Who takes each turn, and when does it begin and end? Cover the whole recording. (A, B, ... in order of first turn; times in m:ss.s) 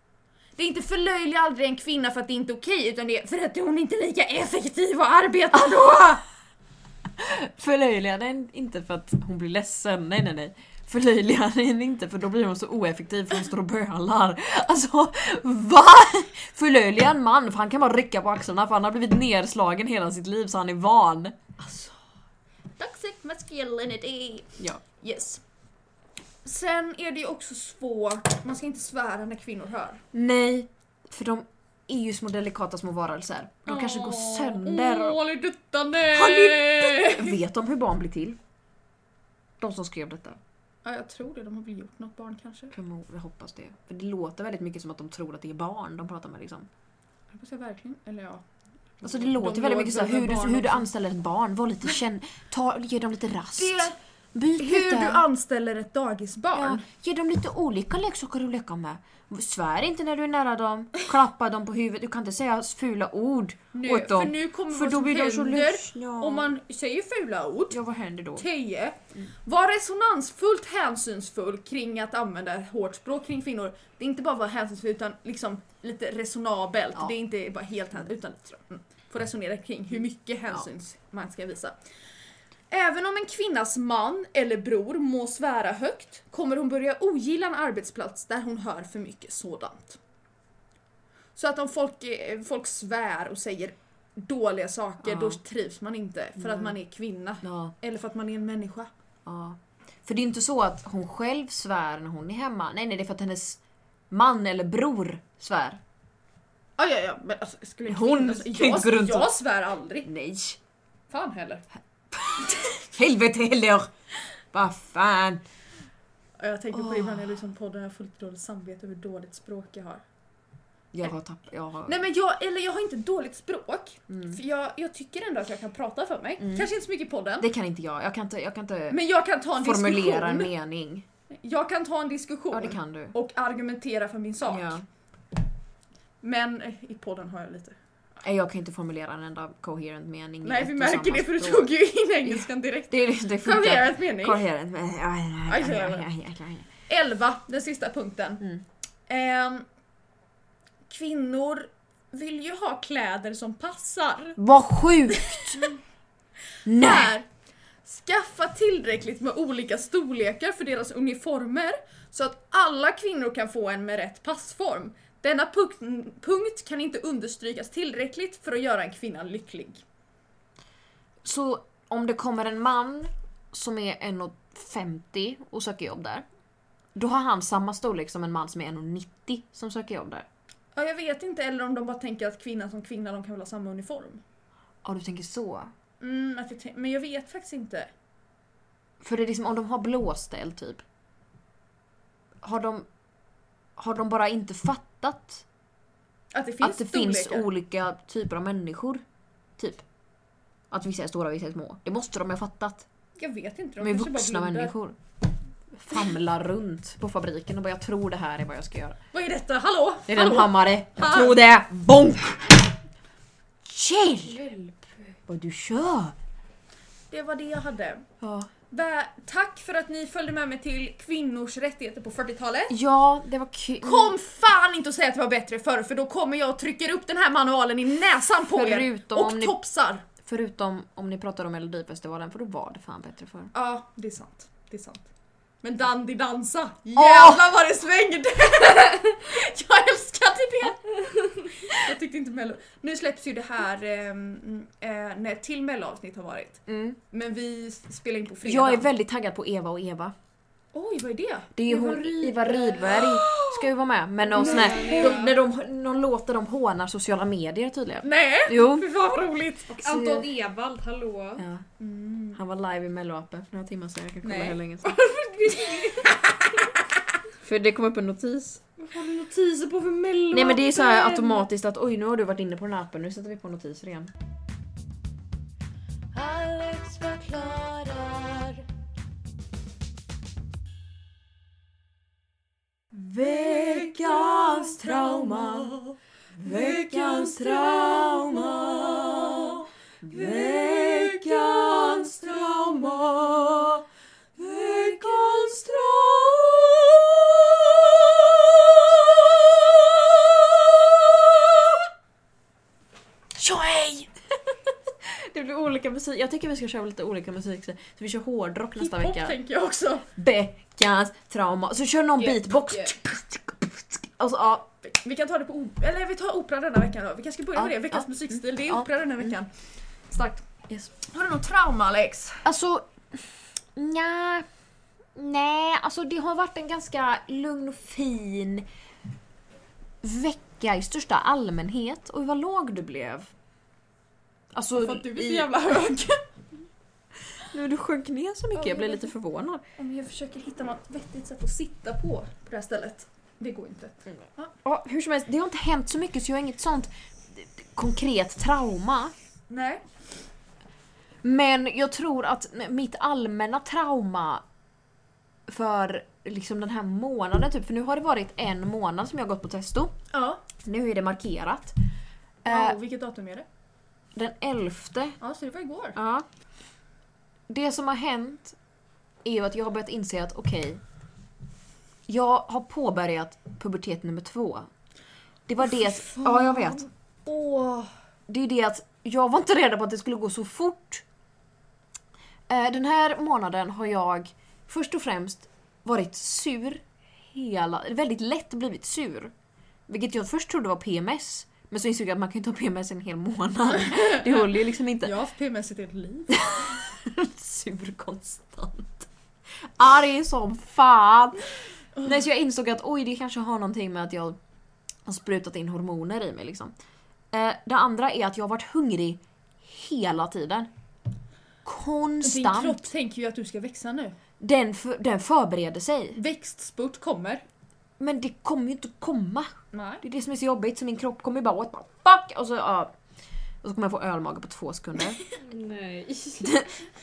0:00.6-0:06.2 A
0:05.6-0:05.9 B
0:07.2-0:21.4 B
0:21.6-0:22.0 A
0:22.8-0:25.4 A
0:26.4-0:30.0 A
0:30.1-0:35.2 B
0:33.6-0:37.4 A
0:36.1-0:38.4 B
0:39.6-0:40.4 B
0:40.8-0:42.7 A
0:42.7-0:46.7 B
0:47.3-0:48.4 A
0:49.0-0:50.9 A
0:49.0-0:55.2 B
0:53.6-0:54.0 A
0:54.6-0:56.8 A
0:56.5-1:06.5 B
1:03.7-1:07.8 A
1:07.7-1:08.4 B
1:08.4-1:21.8 A
1:22.7-1:30.0 A
1:31.4-1:38.9 A
1:35.0-1:35.4 B
1:36.4-1:36.8 B
1:37.4-1:37.7 B
1:39.2-1:43.6 B
1:44.1-1:45.8 B
1:46.8-1:50.1 A
1:47.9-1:49.3 B
1:50.0-1:50.6 B
1:51.1-1:51.6 A
1:52.1-1:53.9 B
1:54.5-1:55.4 B
1:56.4-2:00.0 A
1:56.7-1:57.3 B
2:00.9-2:02.0 B
2:01.8-2:07.5 A
2:04.1-2:04.4 B
2:06.4-2:06.7 B
2:07.4-2:09.0 B
2:08.9-2:10.5 A
2:09.6-2:11.0 B
2:11.3-2:14.8 A
2:12.5-2:13.1 B
2:14.5-2:14.8 B
2:16.2-2:17.8 A
2:18.2-2:21.7 B
2:20.4-2:24.4 A
2:22.2-2:26.7 B
2:25.5-2:26.1 A
2:26.9-2:28.4 A
2:29.1-2:29.6 A
2:30.9-2:34.4 A
2:34.4-2:35.7 B
2:35.1-2:35.7 A
2:36.6-2:37.1 B
2:36.7-2:37.3 A
2:37.8-2:49.8 A
2:51.2-2:56.2 B
2:56.9-3:00.3 B
3:00.7-3:04.2 A
3:04.8-3:05.7 B
3:06.0-3:07.9 A
3:09.0-3:10.8 B
3:12.4-3:12.9 B
3:13.8-3:15.4 B
3:16.3-3:17.5 A
3:16.6-3:19.0 B
3:19.6-3:19.8 B
3:20.7-3:22.8 B
3:23.2-3:24.7 A
3:23.8-3:25.0 B
3:25.7-3:29.0 B
3:29.1-3:31.4 A
3:30.1-3:32.7 B
3:33.6-3:34.4 B
3:34.3-3:34.9 C
3:35.3-3:36.2 B
3:37.1-3:38.0 A
3:38.2-3:38.5 B
3:38.7-3:42.8 A
3:42.7-3:44.2 B
3:43.8-3:50.0 A
3:48.5-3:49.6 B
3:50.2-3:53.5 B
3:53.5-3:55.1 A
3:55.6-4:01.0 A
3:57.0-3:57.4 B
4:01.6-4:08.9 A
4:06.7-4:07.0 B
4:08.4-4:10.1 B
4:10.7-4:13.7 A
4:11.6-4:18.9 B
4:14.3-4:15.3 C
4:14.3-4:15.3 A
4:18.0-4:19.9 A
4:19.8-4:21.4 C
4:19.8-4:20.3 B
4:21.4-4:21.6 B
4:21.8-4:22.4 A
4:22.3-4:25.0 B
4:24.2-4:24.6 A
4:24.8-4:26.2 C
4:27.4-4:28.6 B
4:28.9-4:31.3 C
4:30.3-4:34.1 B
4:36.1-4:38.6 C
4:42.9-4:53.8 B
4:54.4-5:01.8 B
5:03.4-5:04.1 B
5:05.0-5:09.4 B
5:08.8-5:10.1 A
5:10.2-5:14.7 B
5:12.2-5:12.9 A
5:14.8-5:19.5 A
5:17.6-5:19.3 B
5:20.1-5:20.5 A
5:21.0-5:22.4 A
5:22.4-5:23.2 B
5:23.8-5:24.5 B
5:25.1-5:28.6 B
5:30.0-5:33.3 B
5:34.5-5:35.8 B
5:34.8-5:36.2 A
5:37.4-5:39.6 B
5:38.5-5:39.1 A
5:39.8-5:44.5 A
5:44.6-5:49.1 B
5:49.5-5:49.8 A
5:51.2-5:54.4 B
5:55.5-6:00.0 B
6:00.1-6:00.4 A
6:00.6-6:01.8 B
6:02.4-6:02.8 B
6:02.4-6:03.4 A
6:04.1-6:05.2 B
6:05.2-6:06.0 A
6:05.9-6:06.2 B
6:07.5-6:08.6 B
6:09.2-6:10.8 B
6:12.1-6:14.7 B
6:15.5-6:16.8 B
6:15.6-6:17.9 A
6:18.3-6:21.0 B
6:22.5-6:29.3 B
6:29.9-6:35.1 B
6:33.8-6:36.5 A
6:36.3-6:39.1 B
6:39.6-6:41.5 B
6:42.0-6:44.4 B
6:45.0-6:46.7 B
6:47.3-6:50.7 B
6:51.6-6:52.9 B
6:52.2-6:54.2 A
6:54.4-6:56.2 B
6:56.2-6:57.4 A
6:58.0-7:02.9 B
6:59.7-7:00.0 A
7:03.6-7:05.2 B
7:05.4-7:06.6 C
7:06.4-7:06.7 B